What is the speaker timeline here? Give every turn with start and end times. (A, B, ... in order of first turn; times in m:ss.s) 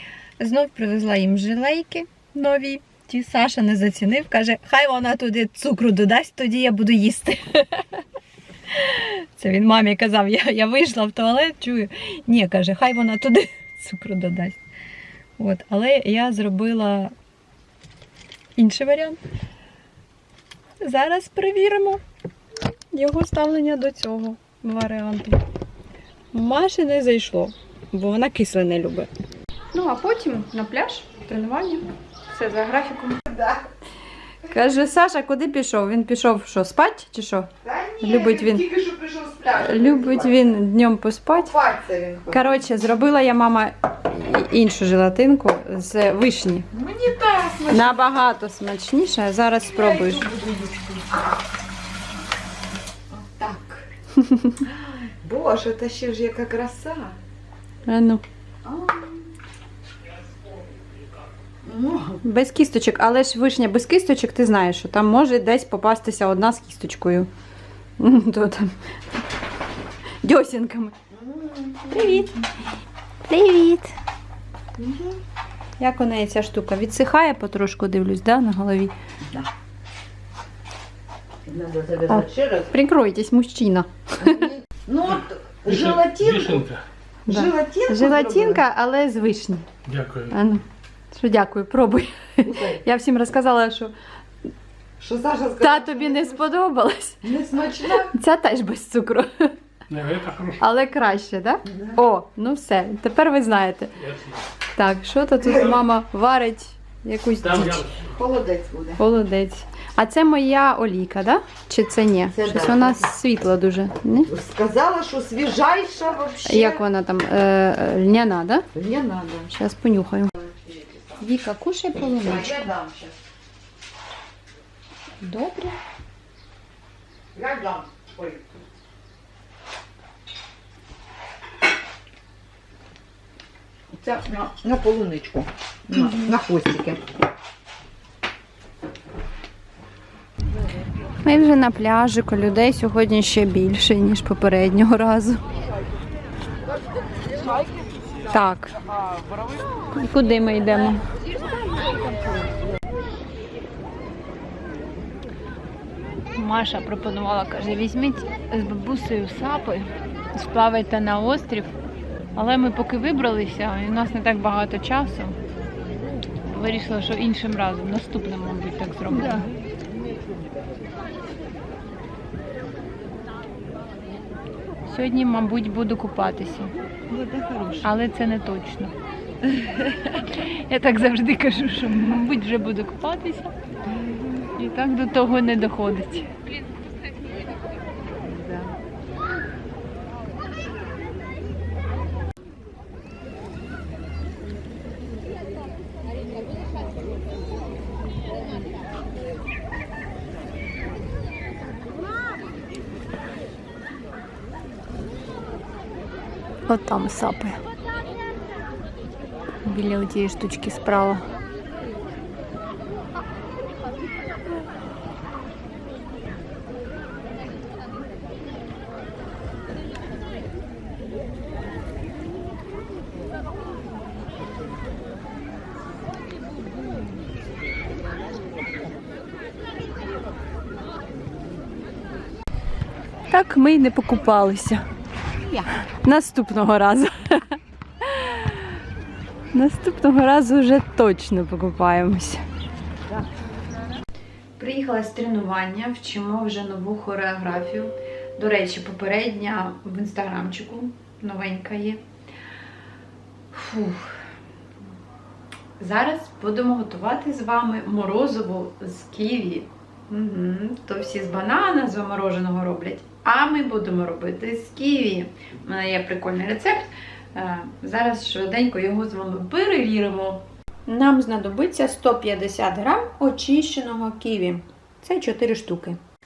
0:00.4-0:08.0 A
0:08.7-0:14.6 A
0:15.4-0:17.1 A
0:18.6-0:19.2 A
0:20.8-0:22.0 A
0:22.9-0:25.4 A
0:26.3-0:29.1 A
0:29.7-0:33.2 A
0:33.3-0:33.6 B
0:34.4-0:38.7 A
0:37.6-0:40.6 B
0:39.5-0:41.5 A
0:41.4-0:42.5 B
0:42.3-0:46.7 A
0:46.7-0:48.1 B
0:47.7-0:50.3 A
0:49.7-0:51.3 B
0:53.1-0:53.9 B
0:54.2-0:54.6 A
0:54.6-0:57.2 B
0:57.8-0:58.2 A
0:58.6-0:59.2 B
1:01.6-1:02.2 B
1:02.2-1:07.3 A
1:08.0-1:08.7 A
1:10.2-1:10.9 A
1:11.1-1:12.3 B
1:11.9-1:12.4 A
1:13.3-1:13.9 A
1:14.8-1:15.2 B
1:15.8-1:18.9 A
1:21.4-1:22.7 B
1:22.1-1:24.5 A
1:24.2-1:26.6 B
1:25.6-1:26.8 C
1:27.3-1:28.6 B
1:27.3-1:29.7 A
1:29.8-1:30.3 C
1:30.3-1:33.9 A
1:32.4-1:32.8 B
1:35.0-1:36.3 B
1:35.6-1:37.3 A
1:37.2-1:38.1 B
1:38.0-1:39.5 A
1:39.9-1:40.6 C
1:40.6-1:44.0 A
1:44.0-1:44.4 C
1:44.7-1:47.8 A
1:47.4-1:48.1 C
1:48.1-1:49.0 B
1:49.0-1:54.3 A
1:52.3-1:53.0 B
1:54.3-1:56.8 B
1:56.4-1:58.7 A
1:58.7-1:59.5 B
1:59.5-2:00.3 A
2:00.5-2:01.2 B
2:01.2-2:02.7 A
2:02.1-2:03.2 B
2:05.2-2:05.8 A
2:07.3-2:08.4 B
2:13.9-2:17.0 B
2:21.2-2:25.4 A
2:28.3-2:28.8 A
2:29.9-2:31.0 A
2:36.3-2:41.8 A
2:42.3-2:45.4 A
2:46.4-2:49.5 A
2:54.8-2:56.7 A
2:57.1-2:57.9 B
2:57.8-2:58.9 A
2:59.5-3:03.5 A
3:04.4-3:06.3 A
3:26.7-3:27.6 A
3:29.6-3:31.3 A
3:53.3-3:54.8 A
3:55.9-3:58.7 A
3:59.5-4:02.4 A
4:04.6-4:12.0 A
4:13.5-4:14.2 A
4:15.8-4:36.0 A